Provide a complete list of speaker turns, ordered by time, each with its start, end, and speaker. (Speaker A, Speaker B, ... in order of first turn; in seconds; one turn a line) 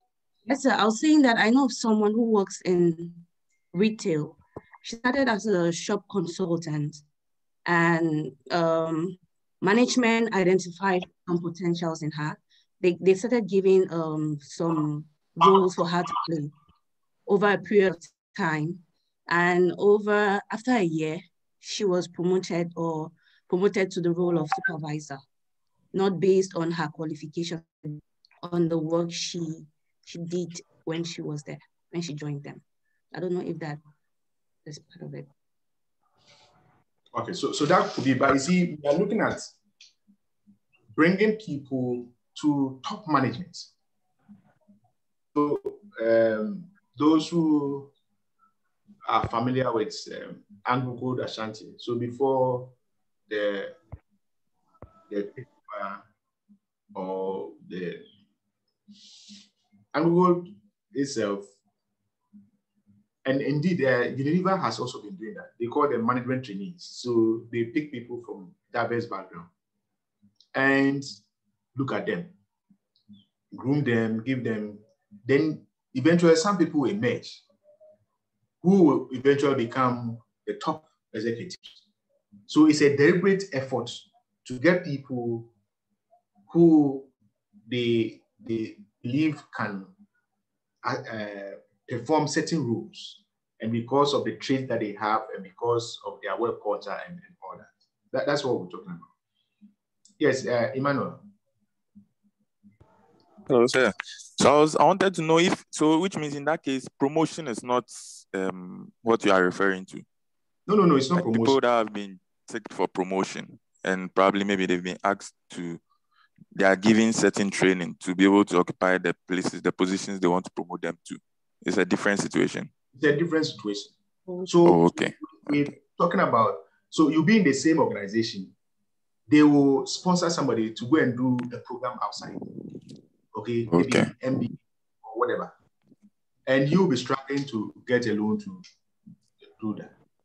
Speaker A: 0.5-7.0
Speaker A: 7.7-16.5
Speaker A: 17.3-25.2
Speaker A: 25.9-33.8
Speaker A: 34.6-35.3
Speaker B: 37.1-39.5
Speaker B: 40.9-43.7
Speaker B: 45.4-47.9
Speaker B: 49.0-52.7
Speaker B: 53.3-53.8
Speaker B: 55.1-56.0
Speaker B: 56.9-58.0
Speaker B: 59.9-61.5
Speaker B: 63.2-69.5
Speaker B: 70.5-71.1
Speaker B: 71.8-72.3
Speaker B: 73.5-77.4
Speaker B: 78.6-81.8
Speaker B: 82.5-85.5
Speaker B: 86.5-87.1
Speaker B: 87.7-89.9
Speaker B: 90.8-99.1
Speaker B: 100.2-101.2
Speaker C: 103.5-110.0
Speaker B: 110.7-111.6
Speaker C: 111.1-115.8
Speaker C: 116.5-122.7
Speaker B: 122.9-123.9
Speaker B: 124.5-128.5
Speaker C: 124.6-125.7
Speaker B: 129.3-132.4
Speaker B: 133.3-135.5
Speaker C: 133.7-134.1
Speaker B: 136.5-138.6
Speaker B: 139.6-139.9